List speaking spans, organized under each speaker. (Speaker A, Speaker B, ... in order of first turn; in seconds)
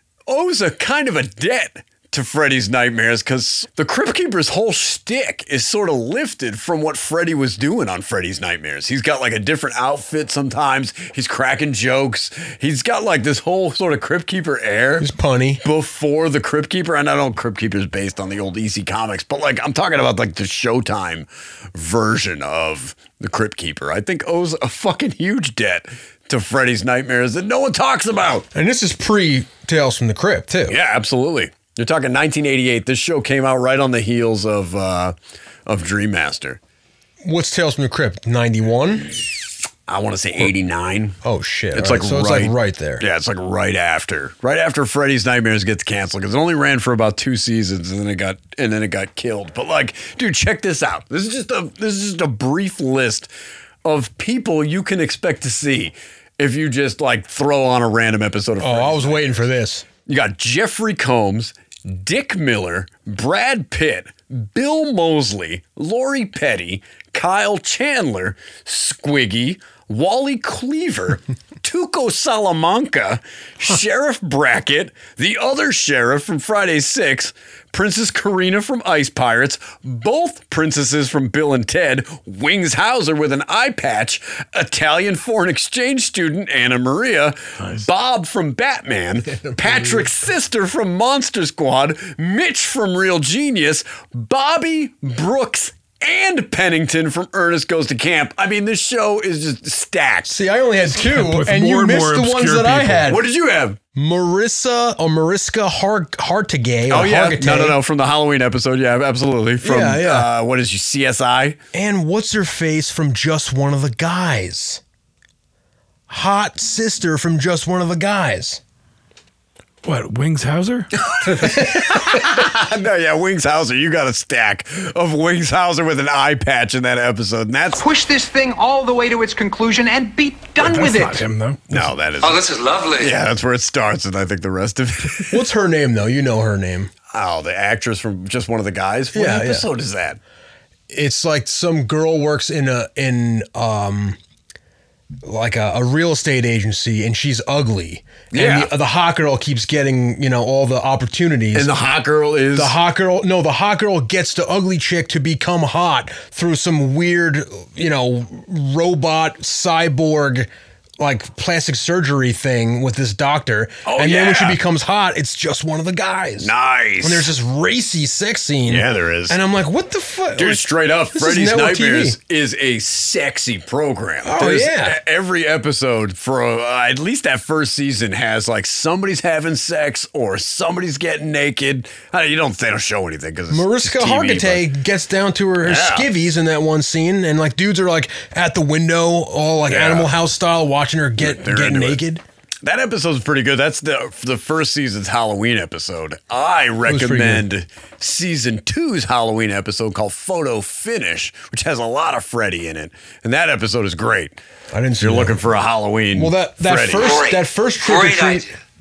Speaker A: 0.3-15.1, 15.6-28.5, 30.7-35.1, 35.7-36.6, 39.9-41.2, 41.7-53.3, 53.9-59.2, 60.1-100.4, 103.1-103.8, 106.9-111.6, 121.4-127.8, 131.7-132.5, 133.0-135.3, 137.1-140.2, 148.3-148.7, 151.5-152.8, 163.8-164.6, 166.4-167.3, 168.7-169.4, 170.4-184.7, 185.6-186.1, 189.7-190.1, 191.2-192.0, 192.6-204.4, 205.0-207.2
Speaker B: 15.0-15.6, 28.5-30.8, 37.2-39.1, 41.2-43.0, 58.6-59.9, 89.5-90.0, 100.3-103.2, 104.0-107.8, 109.6-110.3, 111.7-114.8, 116.1-118.6, 135.3-136.9, 139.1-139.7, 140.9-144.2, 145.2-151.7, 152.6-172.2, 174.2-175.0, 183.5-192.2, 196.9-197.5, 204.7-205.4, 206.2-208.5
Speaker C: 101.0-103.1, 119.8-120.9, 130.6-131.6
Speaker D: 127.8-131.2
Speaker E: 132.2-133.2, 207.0-208.5